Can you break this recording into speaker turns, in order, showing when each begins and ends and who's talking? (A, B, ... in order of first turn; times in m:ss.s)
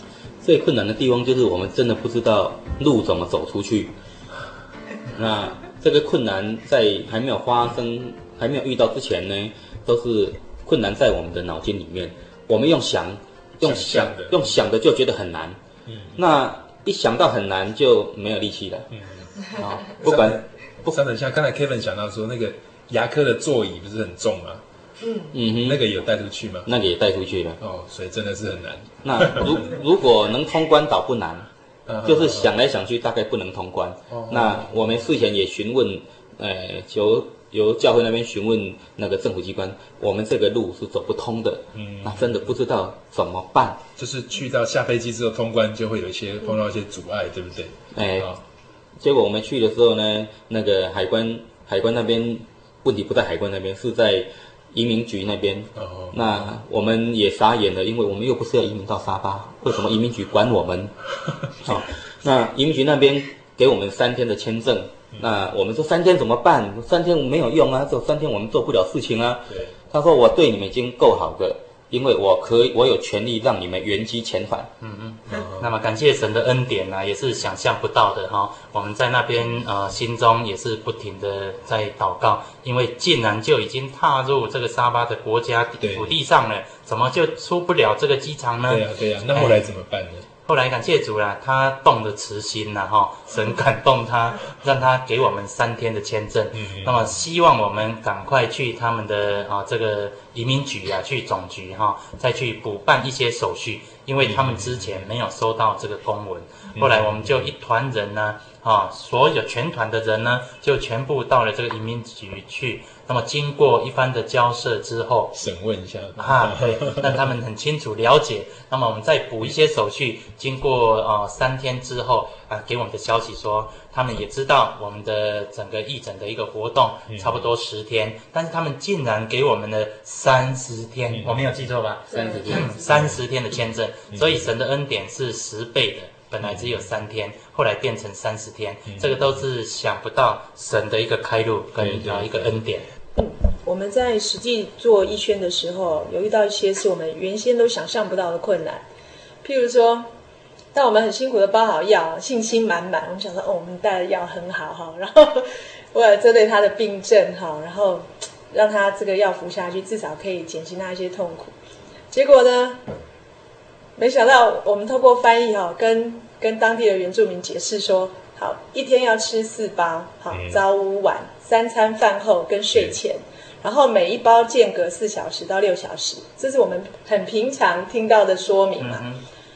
0:00.4-0:03.9 A
0:05.2-0:15.6 A
0:13.6-0:14.5 B
0:15.9-0:16.2 B
0:16.2-0:18.9 A
0:19.0-0:24.6 B
0:19.5-0:21.0 A
0:25.3-0:25.9 A
0:25.6-0:26.7 B
0:26.7-0:27.6 A
0:27.6-0:29.7 B
0:29.0-0:31.5 A
0:31.9-0:32.5 B
0:32.0-0:43.8 A
0:34.1-0:35.1 B
0:41.8-0:42.4 B
0:44.0-0:48.4 B
0:47.9-0:48.3 A
0:49.0-1:00.9 A
0:55.8-0:56.6 B
1:01.6-1:14.7 A
1:05.2-1:05.4 B
1:14.8-1:29.7 C
1:15.3-1:15.7 B
1:25.8-1:26.2 B
1:28.7-1:30.3 B
1:30.4-1:55.3 C
1:36.6-1:37.0 B
1:44.2-1:44.9 B
1:46.8-1:47.5 B
1:55.3-1:57.2 B
1:56.2-2:22.9 C
2:07.1-2:07.5 B
2:11.1-2:11.4 B
2:12.1-2:12.7 A
2:12.9-2:13.2 B
2:14.1-2:14.5 B
2:16.4-2:16.8 B
2:18.9-2:19.3 B
2:21.8-2:22.5 B
2:23.2-2:28.8 D
2:29.4-2:30.1 D
2:30.7-2:41.5 D
2:42.1-2:42.8 D
2:44.0-2:59.0 D
2:50.3-2:50.6 B
2:58.8-2:59.2 C